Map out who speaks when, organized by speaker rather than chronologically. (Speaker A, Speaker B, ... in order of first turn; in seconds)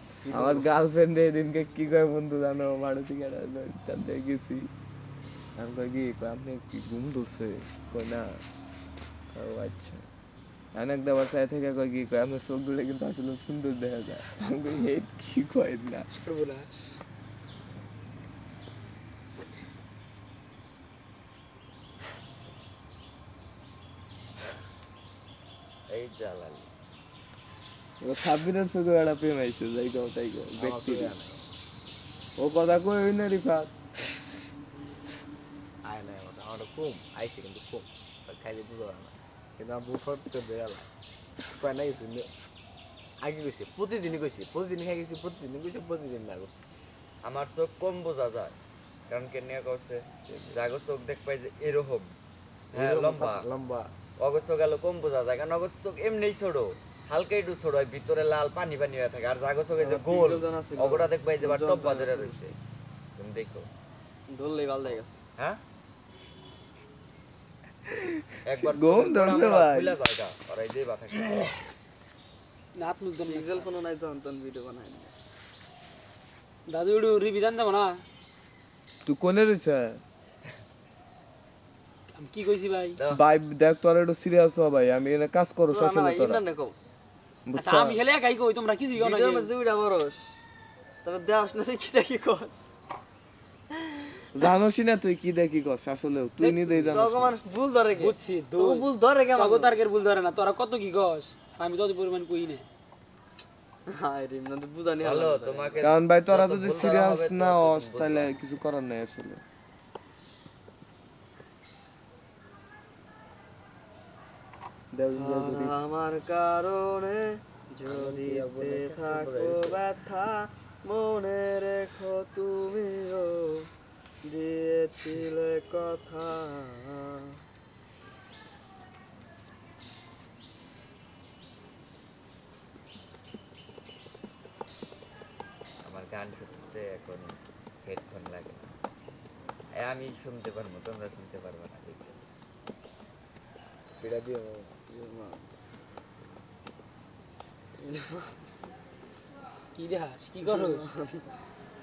Speaker A: 0.2-0.7, 30.6-31.5, 35.8-40.9, 41.4-42.5, 43.2-46.7, 52.7-53.9, 117.8-119.8, 144.0-144.8
Speaker B: 0.3-4.7, 5.6-8.4, 9.3-10.1, 10.8-16.1, 28.0-31.1, 32.4-33.7, 68.6-70.0, 79.1-80.0, 83.1-86.4, 87.5-88.0, 94.3-97.3, 105.8-109.4, 114.9-115.7
Speaker C: 16.1-17.0, 72.8-73.7, 76.7-78.0, 82.1-83.0, 87.5-89.5, 96.4-97.0, 98.0-102.7, 149.8-150.8
Speaker D: 25.9-26.7, 47.2-48.5, 49.1-52.1, 52.7-53.5, 54.2-62.5, 63.2-63.7, 68.5-71.5, 83.0-83.2, 105.0-108.3, 135.8-138.8, 139.8-142.2
Speaker E: 59.8-62.5, 64.3-65.2, 73.3-75.1, 85.7-86.8, 89.0-90.4, 91.0-92.7, 96.9-99.8, 103.9-105.8, 115.2-123.7, 124.2-127.3, 144.9-145.5, 147.8-148.4, 150.4-151.3